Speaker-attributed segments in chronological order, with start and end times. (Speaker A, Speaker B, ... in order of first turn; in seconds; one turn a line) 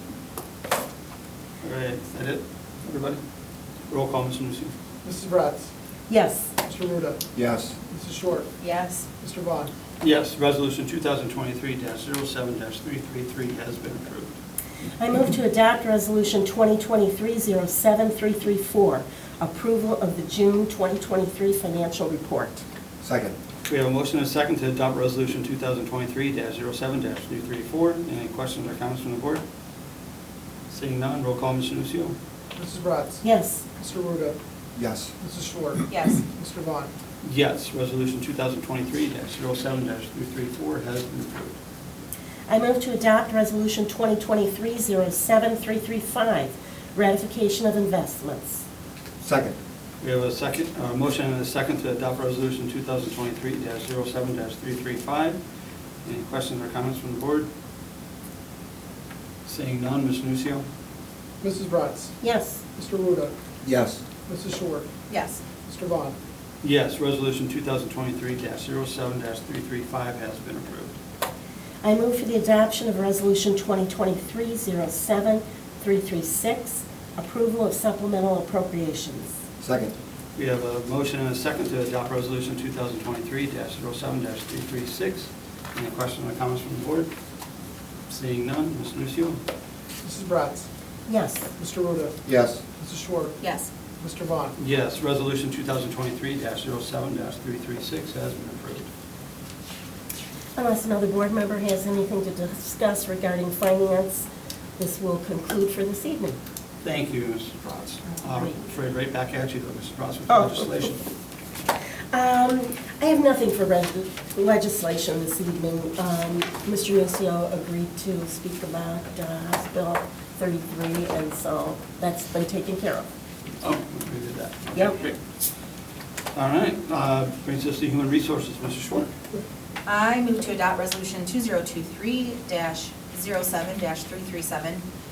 Speaker A: 1.6-3.2
Speaker A: 3.9-4.7
Speaker B: 5.0-5.7
Speaker C: 6.1-6.5
Speaker B: 6.6-8.5
Speaker D: 7.3-7.8
Speaker E: 8.6-9.1
Speaker B: 9.2-9.7
Speaker A: 10.0-14.3
Speaker C: 15.0-22.6
Speaker D: 23.0-23.4
Speaker A: 23.7-29.4
Speaker A: 30.7-32.2
Speaker B: 32.5-34.4
Speaker C: 33.2-33.6
Speaker D: 34.8-35.1
Speaker B: 35.2-36.9
Speaker E: 35.9-36.2
Speaker A: 37.2-41.6
Speaker C: 42.5-48.6
Speaker D: 49.2-49.6
Speaker A: 50.0-55.4
Speaker A: 56.0-57.5
Speaker A: 59.5-60.6
Speaker B: 61.4-62.2
Speaker C: 62.2-62.6
Speaker B: 62.7-63.3
Speaker D: 63.6-64.0
Speaker B: 64.2-64.9
Speaker E: 65.1-65.4
Speaker B: 65.7-66.2
Speaker A: 66.6-70.9
Speaker C: 71.8-79.4
Speaker D: 79.6-79.9
Speaker A: 80.3-87.1
Speaker A: 88.1-89.4
Speaker B: 90.0-90.7
Speaker C: 91.1-91.5
Speaker B: 91.6-93.4
Speaker D: 92.2-92.6
Speaker E: 93.4-93.7
Speaker B: 94.0-94.6
Speaker A: 94.6-98.9
Speaker C: 100.5-104.3
Speaker C: 104.8-106.4
Speaker A: 106.8-111.0
Speaker C: 110.3-110.8
Speaker C: 112.1-123.1
Speaker A: 123.6-125.2
Speaker A: 126.3-129.1
Speaker E: 129.8-134.8